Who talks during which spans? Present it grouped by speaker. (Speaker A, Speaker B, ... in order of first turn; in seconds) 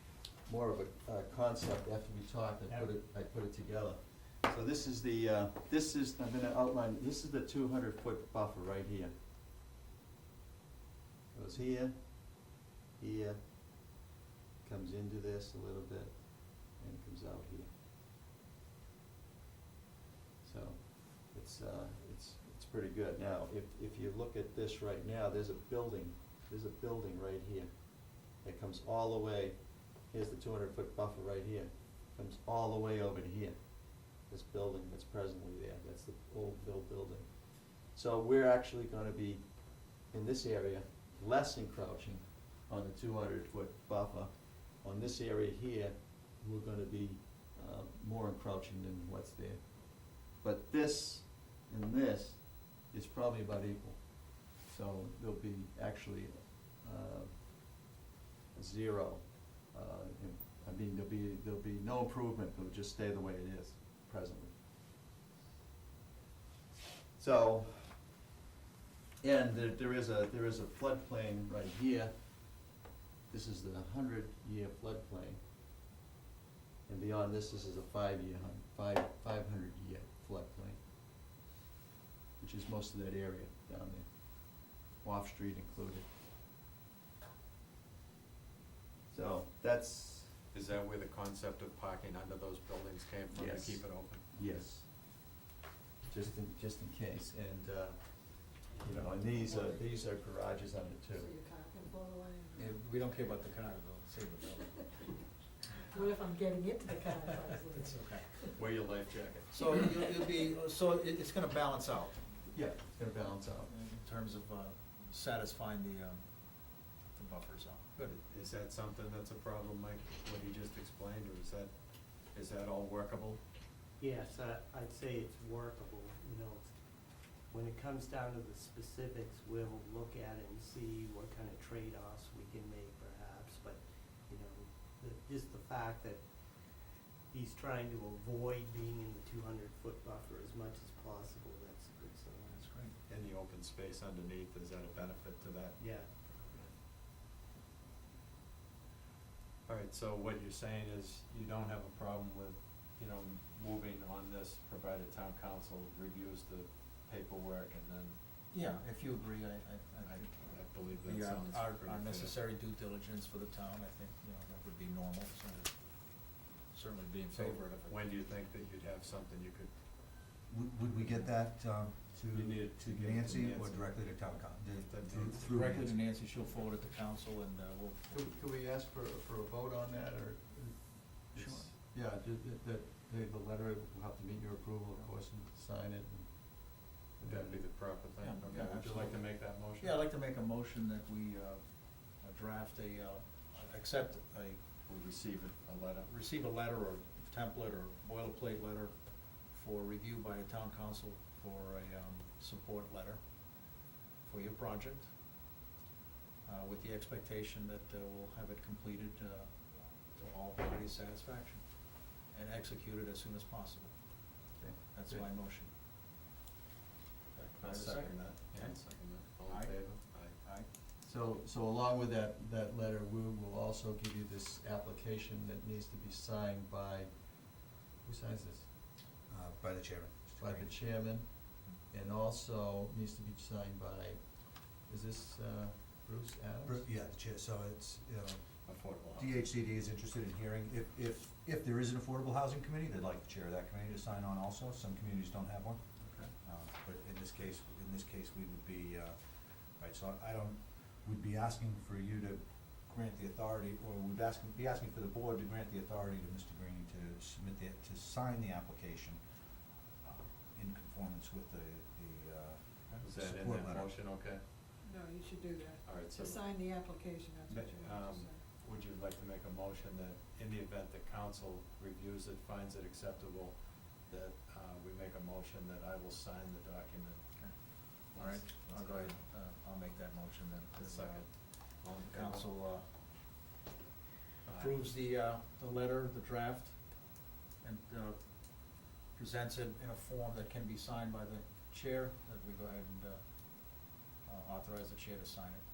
Speaker A: 0.4-9.1, 11.3-14.0, 14.6-17.7, 20.4-57.7, 58.5-64.5, 67.2-67.9, 69.2-72.1, 73.3-75.4, 76.8-80.8, 82.4-86.1, 89.1-90.3, 93.3-94.9, 96.1-101.3, 112.5-113.7, 178.1-187.6, 214.6-215.2, 221.0-228.7, 230.4-236.9
Speaker B: 90.5-94.2, 108.5-109.7, 118.3-121.7, 122.3-123.4, 143.1-146.7, 149.7-158.2, 160.1-162.3, 167.3-169.7, 172.3-175.8, 187.2-189.9, 194.9-196.1, 217.3-220.4, 238.7-239.4, 246.0-246.3, 263.0-264.4, 265.8-266.4, 267.5-277.2, 278.1-279.2, 280.8-282.5, 284.4-284.8
Speaker C: 99.3-100.0, 101.1-102.8, 105.9-108.5, 264.8-268.4
Speaker D: 102.5-105.1, 107.6-108.3, 109.5-112.2, 113.7-118.2, 142.5-142.9, 158.5-165.7, 166.7-168.0, 175.5-178.1, 181.3-181.7, 188.2-189.2, 189.8-191.6, 192.2-194.6, 196.1-198.9, 199.5-203.2, 204.2-205.1, 206.4-209.5, 210.1-211.6, 212.2-213.9, 214.9-215.7, 217.6-218.8, 219.5-220.7, 277.4-282.9, 284.6-286.8, 287.6-288.2, 289.1-295.6
Speaker E: 124.0-126.7, 127.5-136.2, 136.8-142.6, 145.8-146.1
Speaker F: 170.5-175.9, 229.3-230.7, 236.7-245.8, 246.4-259.3, 260.0-263.9